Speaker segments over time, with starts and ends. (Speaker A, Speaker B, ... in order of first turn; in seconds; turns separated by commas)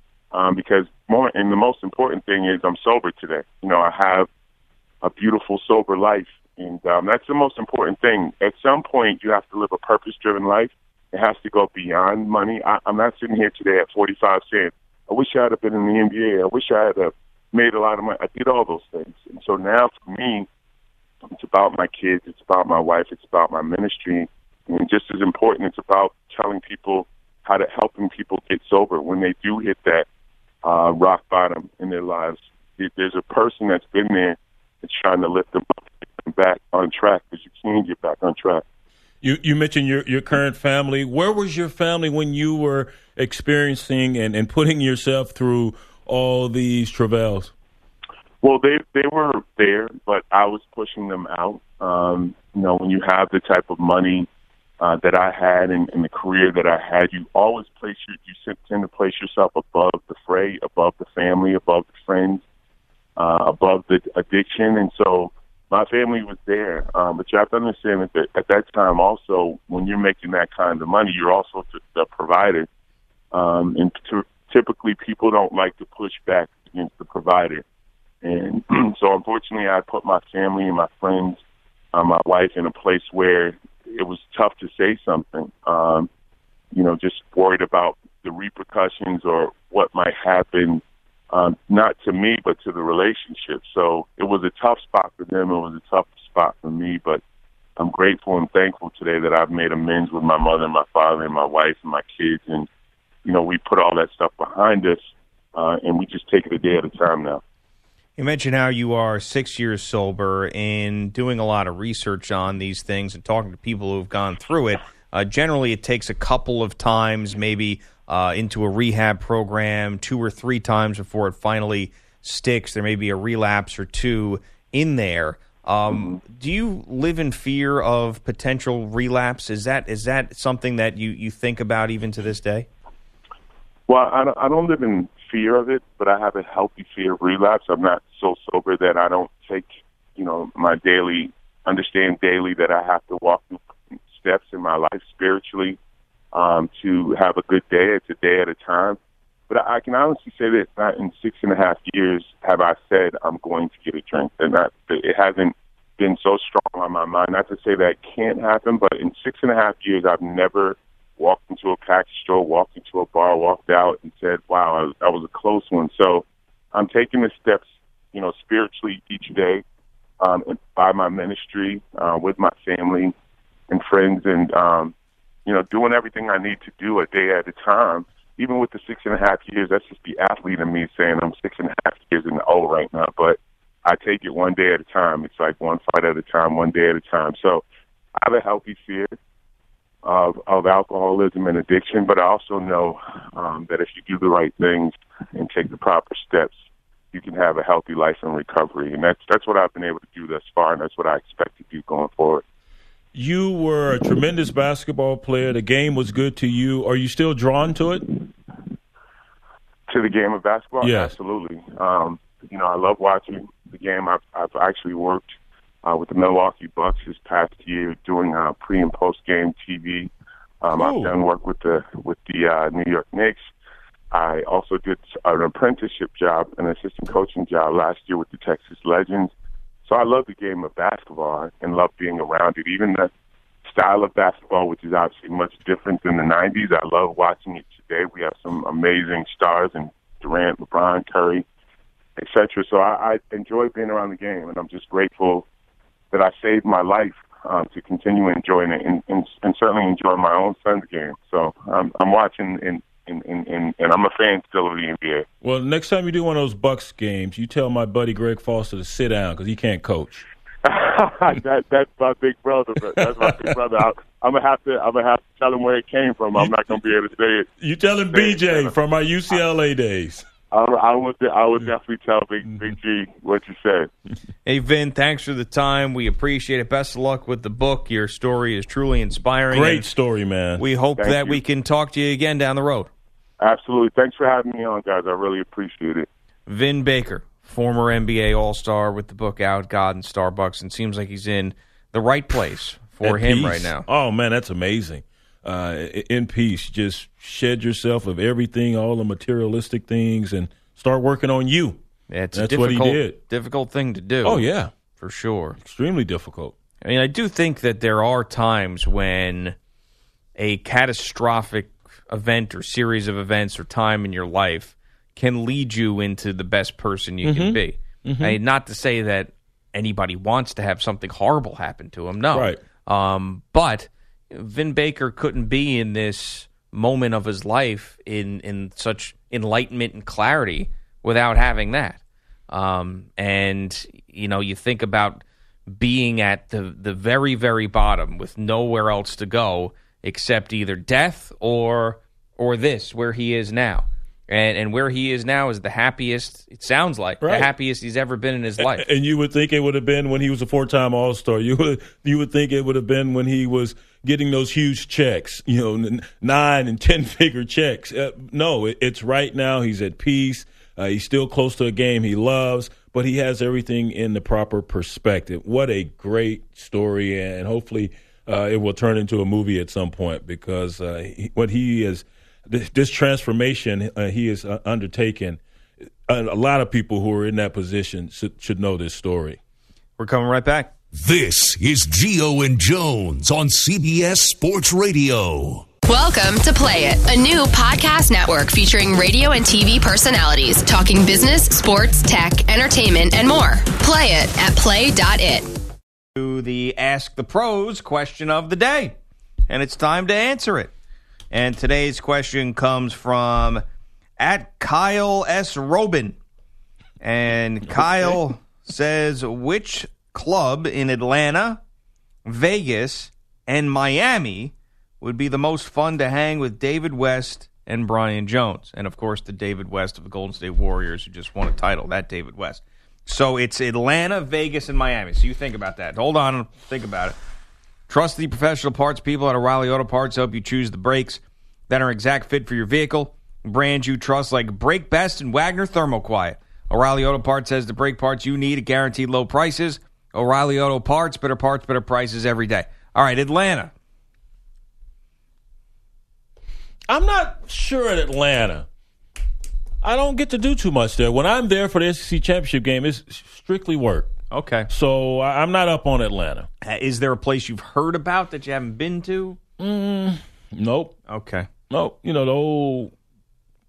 Speaker A: 0.3-4.3, Speaker A: 5.0-20.5, Speaker A: 21.3-30.1, Speaker A: 30.6-38.6, Speaker B: 39.2-47.5, Speaker A: 48.4-54.3, Speaker A: 54.8-62.4, Speaker A: 63.2-72.7, Speaker A: 73.3-77.6, Speaker A: 78.2-81.4, Speaker A: 81.9-86.1, Speaker A: 86.7-97.2, Speaker A: 97.8-102.7, Speaker A: 103.2-105.0, Speaker A: 105.5-107.4, Speaker C: 108.2-132.7, Speaker A: 133.9-145.8, Speaker A: 146.3-149.0, Speaker A: 149.5-169.6, Speaker A: 170.2-173.1, Speaker A: 173.7-174.9, Speaker A: 175.4-187.6, Speaker A: 188.2-189.1, Speaker A: 190.0-196.5, Speaker A: 197.1-202.4, Speaker B: 203.1-208.2, Speaker A: 209.9-215.2, Speaker B: 210.8-211.1, Speaker A: 215.8-220.1, Speaker A: 220.6-223.5, Speaker B: 220.8-221.1, Speaker A: 224.1-229.3, Speaker A: 229.8-233.1, Speaker A: 233.6-241.4, Speaker A: 242.2-245.4, Speaker A: 246.1-255.2, Speaker B: 255.4-260.2, Speaker A: 260.6-267.5, Speaker B: 263.0-263.3, Speaker B: 266.3-266.8, Speaker B: 267.6-270.2, Speaker A: 268.1-268.7, Speaker A: 270.5-273.9, Speaker B: 272.5-272.7, Speaker C: 274.4-279.9, Speaker B: 279.5-280.6, Speaker C: 280.6-282.9, Speaker A: 281.0-281.4, Speaker A: 283.4-286.1, Speaker C: 286.5-293.9, Speaker B: 293.0-301.8, Speaker C: 302.1-305.6, Speaker B: 302.3-303.2, Speaker B: 304.2-304.7, Speaker B: 305.6-306.5, Speaker C: 306.8-309.6, Speaker C: 310.4-348.9, Speaker B: 317.2-318.4, Speaker B: 322.3-322.6, Speaker B: 347.2-347.5, Speaker B: 348.6-375.4, Speaker B: 376.1-379.4, Speaker C: 380.0-380.7, Speaker D: 380.9-385.7, Speaker E: 385.8-395.5, Speaker C: 396.1-398.9, Speaker C: 399.5-400.7, Speaker C: 401.3-403.6, Speaker C: 404.2-406.2, Speaker C: 407.0-411.6, Speaker C: 412.2-427.1, Speaker C: 427.9-443.7, Speaker B: 446.9-448.6, Speaker B: 449.8-454.1, Speaker C: 454.3-454.7, Speaker B: 454.7-456.5, Speaker C: 456.6-459.4, Speaker B: 459.6-460.9, Speaker C: 461.1-461.5, Speaker B: 461.7-462.9